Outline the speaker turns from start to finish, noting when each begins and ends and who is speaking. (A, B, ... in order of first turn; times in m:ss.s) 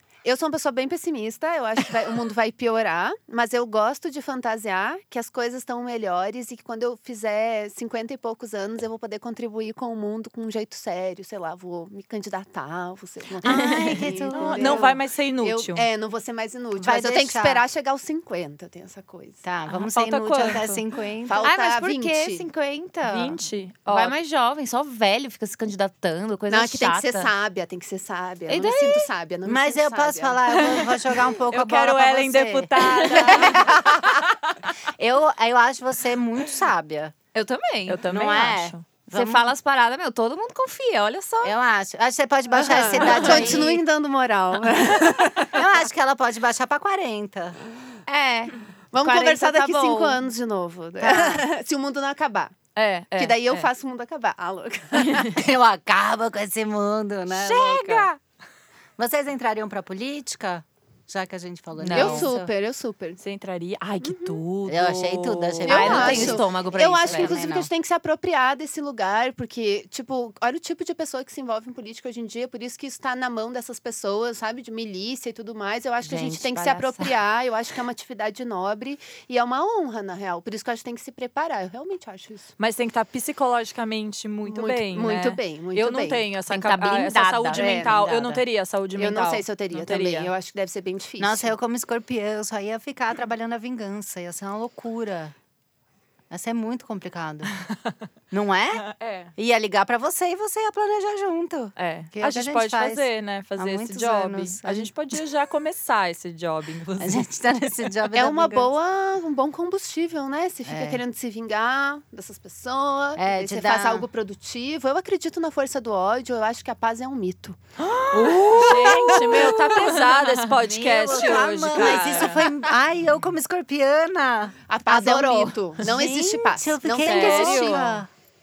0:00.2-0:19.4 A
0:13.4-0:14.9 B
0:14.3-0:15.9 C
0:16.8-0:17.6 B
0:19.4-0:21.5 B
0:19.9-0:20.8 C
0:21.2-0:22.4 A
0:21.4-0:27.3 D
0:23.1-0:24.1 C
0:26.5-0:30.8 A
0:28.5-0:29.0 D
0:29.4-0:34.0 B
0:31.5-0:33.8 C
0:35.0-0:37.1 B
0:37.4-0:38.0 D
0:37.9-0:38.8 C
0:38.1-0:39.5 B
0:39.1-0:41.6 D
0:41.4-0:43.8 B
0:42.5-0:45.6 A
0:43.1-0:43.4 D
0:45.5-0:47.6 B
0:48.1-0:50.2 D
0:48.9-0:52.6 A
0:51.0-0:51.5 B
0:52.8-0:53.6 D
0:53.2-0:55.4 A
0:55.3-0:58.1 B
0:57.3-0:58.2 C
0:59.0-1:02.5 B
1:01.8-1:02.3 D
1:01.9-1:03.2 A
1:03.2-1:06.3 C
1:04.0-1:04.4 A
1:04.7-1:06.5 B
1:05.6-1:22.5 A
1:05.7-1:07.4 D
1:07.0-1:07.7 B
1:16.0-1:17.2 D
1:22.6-1:30.3 C
1:24.4-1:26.3 A
1:26.5-1:28.0 D
1:27.5-1:27.9 A
1:27.9-1:28.4 B
1:29.0-1:31.5 A
1:31.2-1:35.3 B
1:36.3-1:37.5 B
1:38.3-1:44.9 B
1:38.8-1:39.3 C
1:41.8-1:47.3 C
1:47.0-1:48.7 B
1:48.1-1:57.6 A
1:50.7-1:51.0 B
1:53.2-1:54.1 B
1:57.8-2:02.5 C
1:58.5-1:59.8 A
1:58.5-1:59.4 B
2:00.7-2:08.1 B
2:01.1-2:01.4 A
2:01.9-2:02.3 A
2:04.7-2:08.0 A
2:07.0-2:07.9 C